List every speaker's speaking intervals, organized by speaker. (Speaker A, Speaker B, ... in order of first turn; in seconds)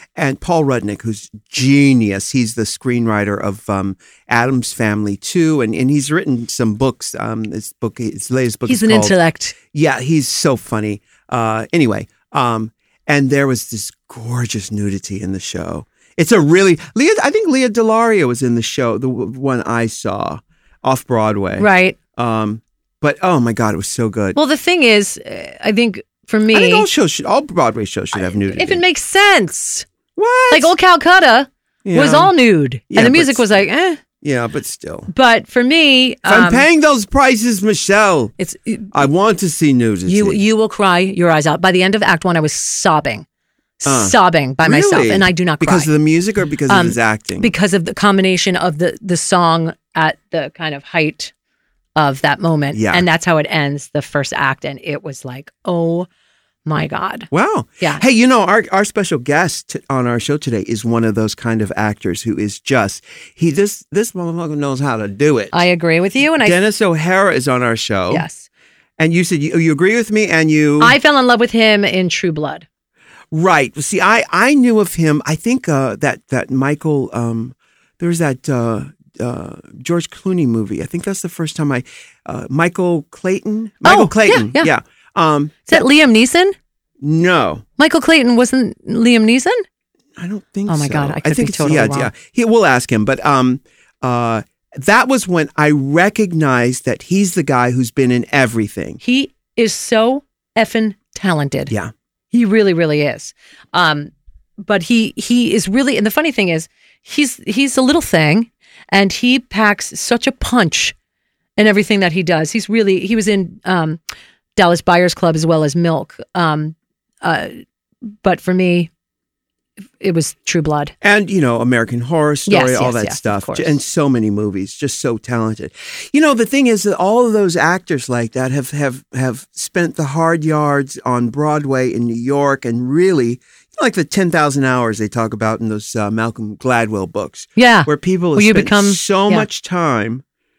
Speaker A: 0.2-24.4, 26.5-28.8, 30.2-30.7, 31.8-32.3, 32.9-33.6, 34.2-35.1, 36.2-38.3, 38.9-40.4, 43.9-47.5, 52.7-53.0, 57.3-65.6, 66.4-68.3, 69.0-71.0, 73.3-85.8, 87.0-87.6, 90.2-99.0, 121.0-140.2
Speaker B: 8.7-9.6, 21.6-22.0, 24.4-26.9, 28.1-29.9, 30.5-34.0, 35.1-36.7, 38.4-38.9, 40.1-43.2, 43.8-45.9, 46.7-51.3, 52.0-56.1, 56.6-57.3, 65.5-66.5, 68.1-68.5, 70.8-72.7, 83.8-84.7, 85.7-86.5, 87.8-89.6, 90.7-92.1, 99.0-101.7, 102.3-111.0, 111.6-114.0, 114.6-117.5, 118.2-118.9, 120.0-120.9, 122.5-123.7, 137.6-139.5